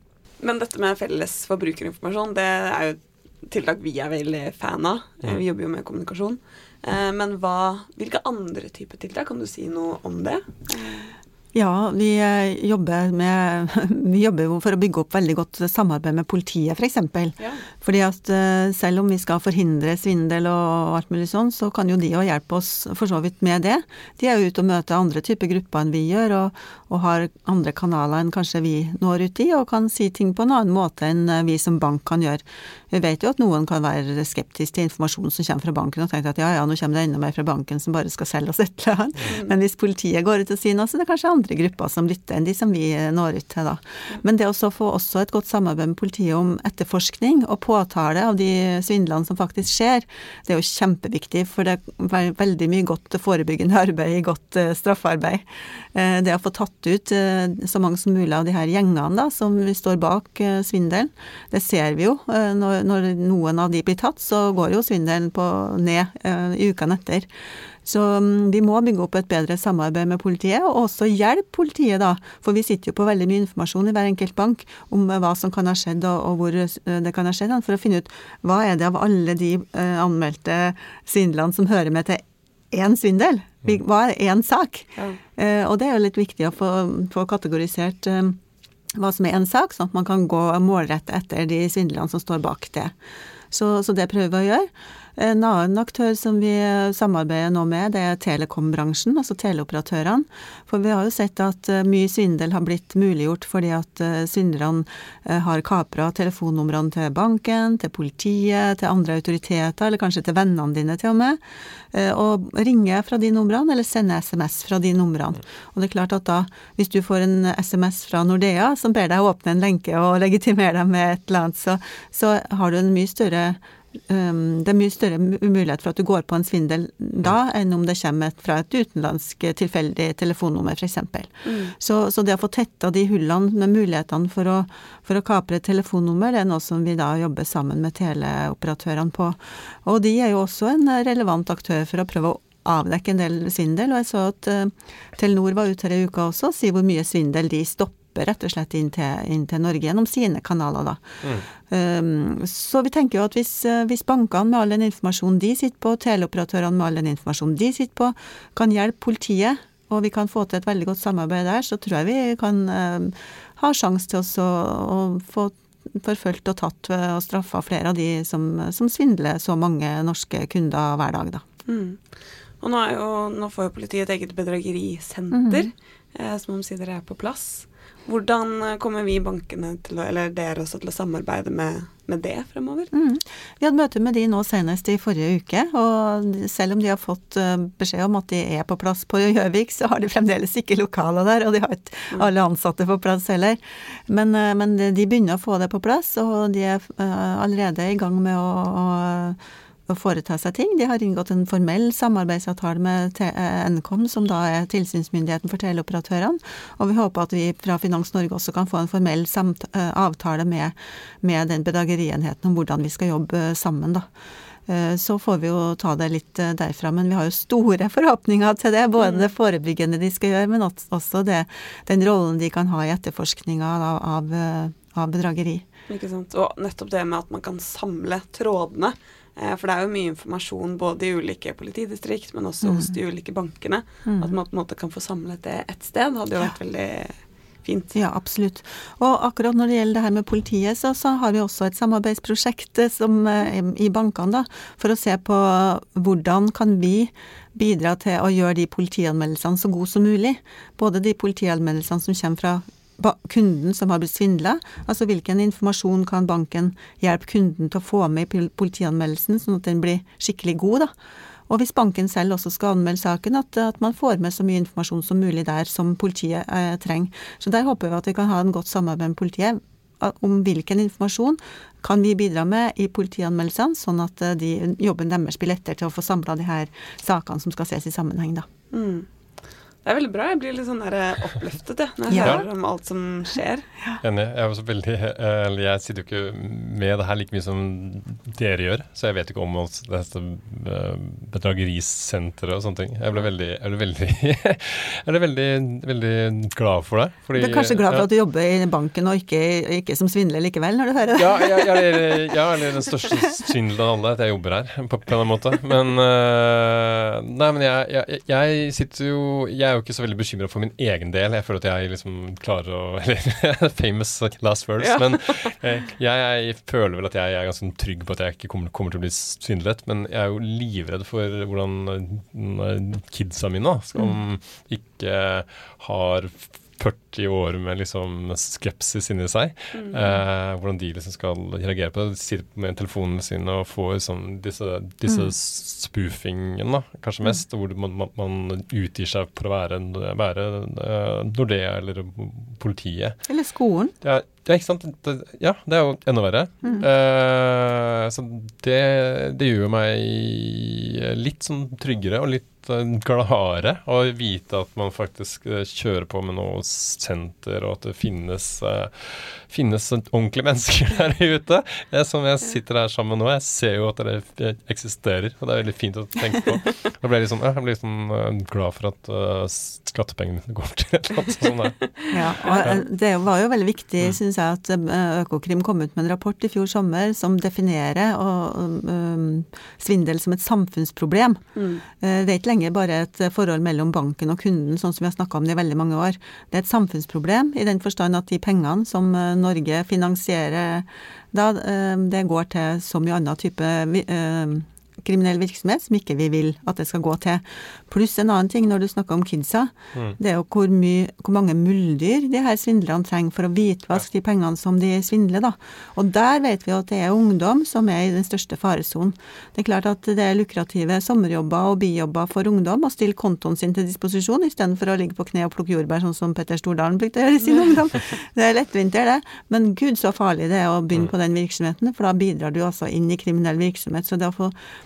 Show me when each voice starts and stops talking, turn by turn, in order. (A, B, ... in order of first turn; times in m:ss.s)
0:00.4-0:11.1 A
0:11.5-1:07.3 B
0:39.2-0:39.5 A
1:07.8-1:28.4 B
1:28.9-1:33.0 B
1:33.5-1:51.4 B
1:51.9-2:31.0 B
2:11.4-2:11.8 A
2:31.7-2:51.4 B
2:51.7-3:02.9 A
2:55.3-2:55.7 B
3:02.9-3:34.1 B
3:34.7-3:45.7 B
3:39.0-3:39.3 A
3:45.9-3:58.0 A
3:52.6-3:52.9 B
3:54.1-3:54.3 B
3:57.9-4:21.0 B
4:21.5-4:38.5 B
4:38.7-4:39.1 A
4:39.8-4:43.7 A
4:42.1-4:42.4 B
4:42.2-4:42.4 C
4:44.0-4:58.1 C
4:57.4-5:02.4 B
5:01.2-5:43.2 C
5:14.8-5:15.6 A
5:29.7-5:30.2 A
5:43.3-5:43.9 B
5:44.0-6:12.0 C
6:11.8-6:12.7 A
6:12.1-7:04.6 B
6:12.5-6:12.8 C
6:21.6-6:21.8 A
6:57.4-6:57.7 A